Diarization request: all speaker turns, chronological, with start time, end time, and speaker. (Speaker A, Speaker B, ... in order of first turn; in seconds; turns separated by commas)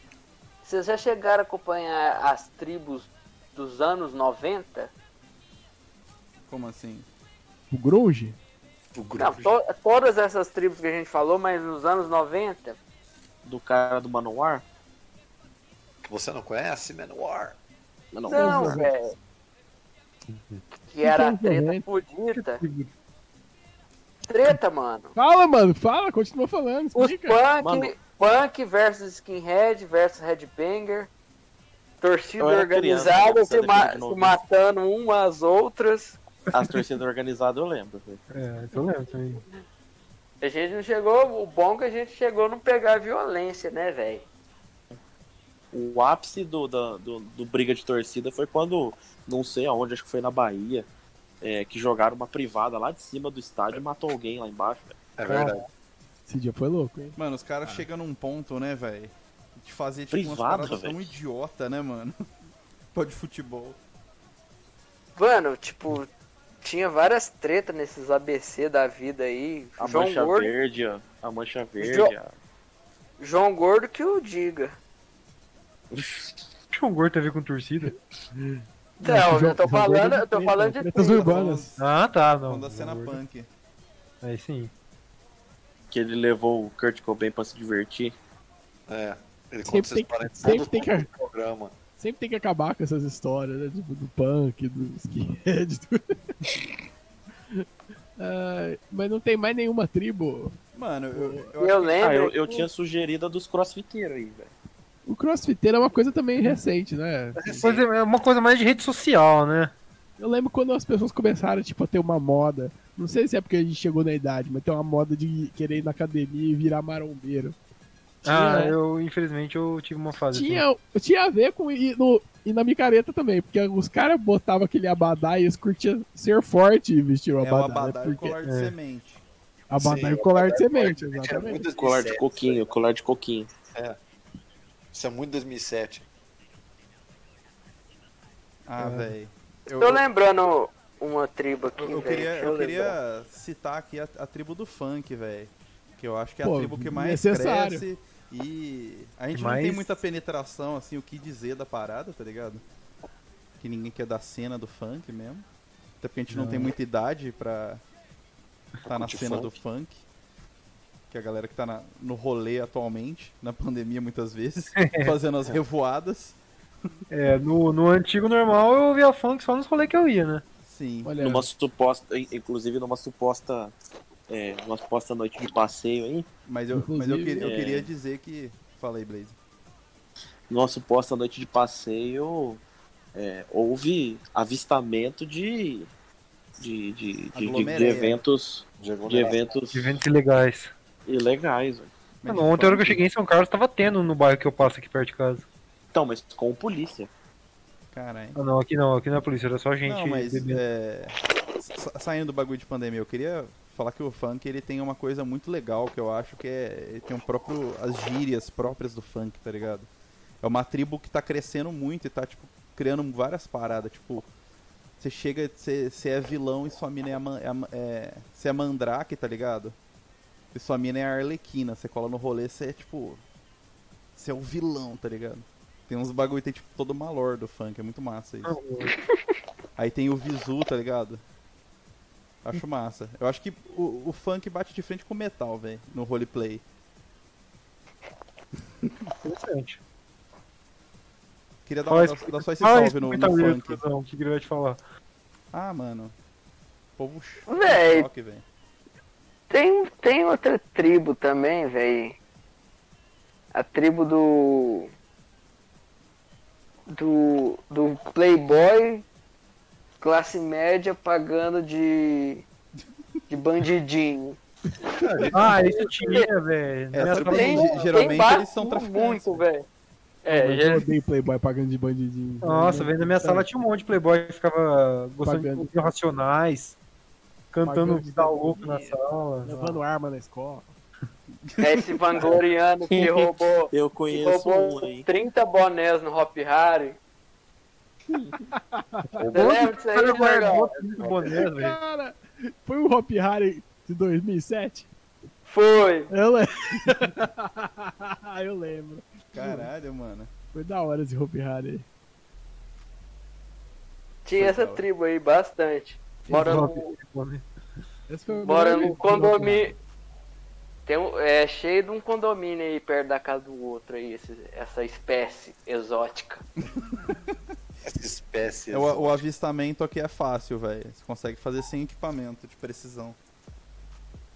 Speaker A: 0.6-4.9, Speaker B: 6.5-7.1, Speaker C: 7.7-8.4, Speaker D: 8.9-9.5, Speaker A: 9.2-12.8, Speaker E: 13.4-14.7, Speaker D: 16.0-17.6, Speaker E: 18.1-18.9, Speaker A: 18.3-19.1, Speaker F: 18.4-18.7, Speaker F: 20.3-20.6, Speaker A: 20.9-22.6, Speaker C: 21.0-21.8, Speaker F: 22.3-22.9, Speaker A: 24.2-25.1, Speaker C: 25.2-27.4, Speaker A: 26.9-31.1, Speaker E: 27.6-27.9, Speaker A: 32.0-36.2, Speaker E: 32.4-34.4, Speaker E: 36.5-38.2, Speaker F: 38.3-39.4, Speaker A: 40.4-44.2, Speaker E: 45.7-50.9, Speaker E: 51.4-55.0, Speaker D: 55.2-55.6, Speaker F: 55.3-55.6, Speaker C: 56.3-57.8, Speaker B: 57.2-62.2, Speaker E: 60.1-61.1, Speaker B: 62.9-63.8, Speaker A: 65.2-66.1, Speaker A: 66.6-70.5, Speaker E: 69.8-72.3, Speaker A: 71.8-72.1, Speaker A: 73.2-74.7, Speaker E: 75.9-76.4, Speaker F: 76.7-77.9, Speaker C: 78.4-81.7, Speaker A: 79.0-81.2, Speaker B: 81.0-81.8, Speaker F: 81.8-83.2, Speaker B: 82.5-83.5, Speaker F: 84.2-84.7, Speaker E: 85.9-88.1, Speaker D: 88.9-91.7, Speaker C: 89.7-91.1, Speaker C: 92.0-96.3, Speaker C: 98.2-100.6, Speaker B: 100.7-102.0, Speaker C: 101.2-101.5, Speaker A: 101.6-102.6, Speaker E: 102.0-104.5, Speaker C: 105.1-107.4, Speaker D: 107.4-107.8, Speaker F: 107.5-109.7, Speaker C: 110.2-117.6, Speaker C: 118.2-118.8, Speaker F: 118.2-120.7, Speaker C: 120.3-128.3, Speaker B: 127.4-129.2, Speaker F: 128.4-128.8, Speaker C: 129.7-131.6, Speaker D: 129.8-132.7, Speaker E: 131.8-133.5, Speaker D: 134.9-136.1, Speaker B: 138.7-140.0, Speaker F: 138.8-139.1, Speaker A: 139.7-142.9, Speaker B: 141.8-152.6, Speaker C: 146.4-147.8, Speaker F: 149.3-149.9, Speaker B: 153.6-155.5, Speaker B: 156.0-157.8, Speaker F: 156.3-156.7, Speaker D: 158.8-159.6, Speaker B: 158.9-160.0, Speaker B: 161.1-166.4, Speaker F: 164.8-165.2, Speaker F: 167.1-170.4, Speaker B: 170.6-171.1, Speaker C: 171.1-171.5, Speaker E: 171.2-173.7, Speaker E: 174.3-176.3, Speaker B: 176.5-179.4, Speaker C: 176.8-177.4, Speaker E: 177.4-177.9, Speaker E: 180.5-182.6, Speaker E: 183.2-185.9, Speaker E: 186.6-190.0, Speaker B: 187.3-188.2, Speaker D: 188.8-189.4, Speaker F: 189.7-190.7, Speaker E: 191.1-191.9, Speaker B: 192.2-193.1, Speaker F: 192.3-195.4, Speaker E: 195.9-197.1, Speaker B: 197.9-198.4, Speaker F: 198.4-200.6, Speaker B: 199.8-209.9, Speaker B: 210.4-214.3, Speaker B: 215.0-219.8, Speaker B: 220.5-223.2, Speaker B: 224.2-228.6, Speaker F: 228.4-228.9, Speaker A: 228.9-229.2, Speaker B: 229.8-231.2, Speaker B: 232.4-236.6, Speaker F: 239.2-239.8, Speaker B: 241.7-243.8, Speaker F: 241.9-244.8, Speaker B: 245.5-246.1, Speaker B: 247.0-248.4, Speaker A: 247.5-248.1, Speaker A: 249.5-252.2, Speaker A: 253.5-254.9, Speaker A: 256.9-259.1, Speaker A: 260.0-262.4, Speaker A: 263.3-264.4, Speaker D: 264.9-265.7, Speaker F: 265.3-268.2, Speaker A: 265.6-266.3, Speaker B: 266.9-269.4, Speaker A: 267.1-269.6, Speaker A: 270.2-270.9, Speaker C: 270.3-273.5, Speaker F: 272.4-276.8, Speaker C: 275.2-275.9, Speaker F: 277.5-279.8, Speaker C: 277.6-280.7, Speaker B: 281.5-282.2, Speaker A: 281.6-287.0, Speaker E: 282.9-285.1, Speaker C: 288.6-289.1, Speaker D: 289.2-289.5, Speaker A: 289.3-290.7, Speaker F: 289.3-291.8, Speaker D: 290.8-291.3, Speaker C: 291.6-294.9, Speaker A: 295.5-296.1, Speaker C: 296.1-299.6, Speaker B: 299.3-300.3, Speaker C: 300.5-301.9, Speaker A: 304.2-306.9, Speaker B: 304.4-304.9, Speaker F: 306.3-307.4, Speaker C: 306.3-306.6, Speaker C: 308.1-309.7, Speaker A: 308.4-309.8, Speaker A: 310.9-316.4, Speaker D: 317.8-319.2, Speaker B: 318.7-323.2